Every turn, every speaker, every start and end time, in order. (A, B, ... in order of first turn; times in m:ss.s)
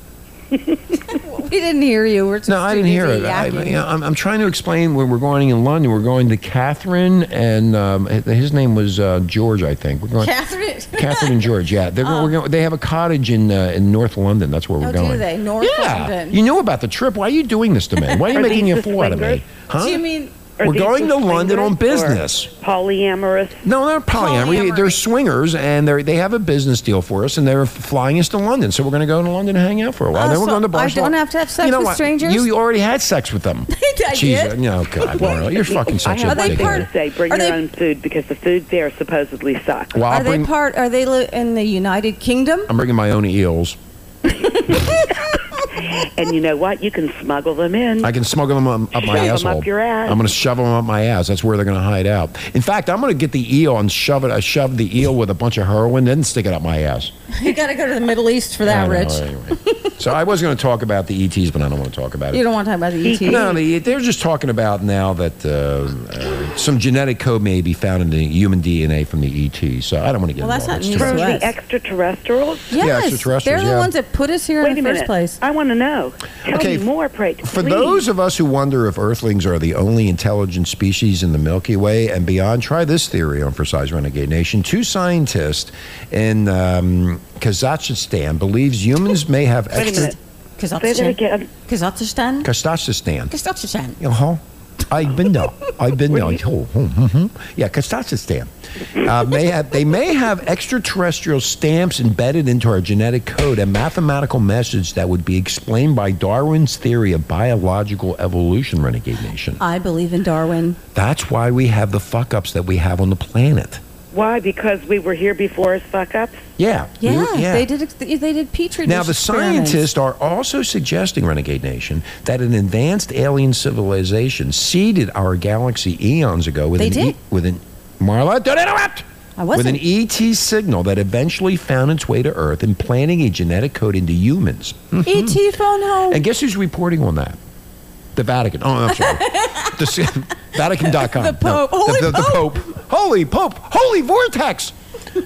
0:00.5-0:00.8 A
0:01.1-0:03.8 B
0:02.5-0:10.3 C
0:10.2-0:12.4 B
0:10.9-0:20.0 C
0:14.8-0:16.4 B
0:18.1-0:18.4 B
0:18.3-0:19.5 A
0:19.8-0:20.3 B
0:20.6-0:23.6 A
0:20.6-0:22.5 C
0:23.6-0:36.9 C
0:24.2-0:25.0 B
0:30.1-0:32.5 B
0:33.7-0:34.6 B
0:35.2-0:39.9 A
0:36.3-0:37.6 B
0:39.9-0:40.5 C
0:40.1-0:42.7 B
0:42.7-0:43.8 C
0:44.3-0:45.1 B
0:45.8-0:48.1 A
0:48.0-0:57.1 C
0:49.0-0:50.2 A
0:57.3-1:00.0 B
0:58.6-1:02.4 C
1:02.3-1:03.6 B
1:03.0-1:03.6 A
1:03.2-1:11.4 C
1:10.4-1:11.5 B
1:11.0-1:12.7 A
1:12.7-1:15.4 B
1:12.8-1:13.9 C
1:14.6-1:18.0 A
1:16.5-1:16.8 C
1:17.4-1:30.1 C
1:29.8-1:30.2 A
1:30.6-1:32.5 B
1:30.8-1:31.5 A
1:32.4-1:33.3 C
1:33.3-1:34.0 B
1:34.0-1:49.6 C
1:49.6-1:50.8 B
1:50.9-1:53.8 C
1:54.1-1:56.4 A
1:56.6-1:57.7 C
1:57.0-1:59.9 B
1:58.8-2:15.4 C
2:06.8-2:07.2 B
2:09.4-2:09.8 B
2:15.0-2:16.2 B
2:16.1-2:17.4 C
2:18.2-2:24.7 C
2:18.9-2:19.9 B
2:20.6-2:22.6 B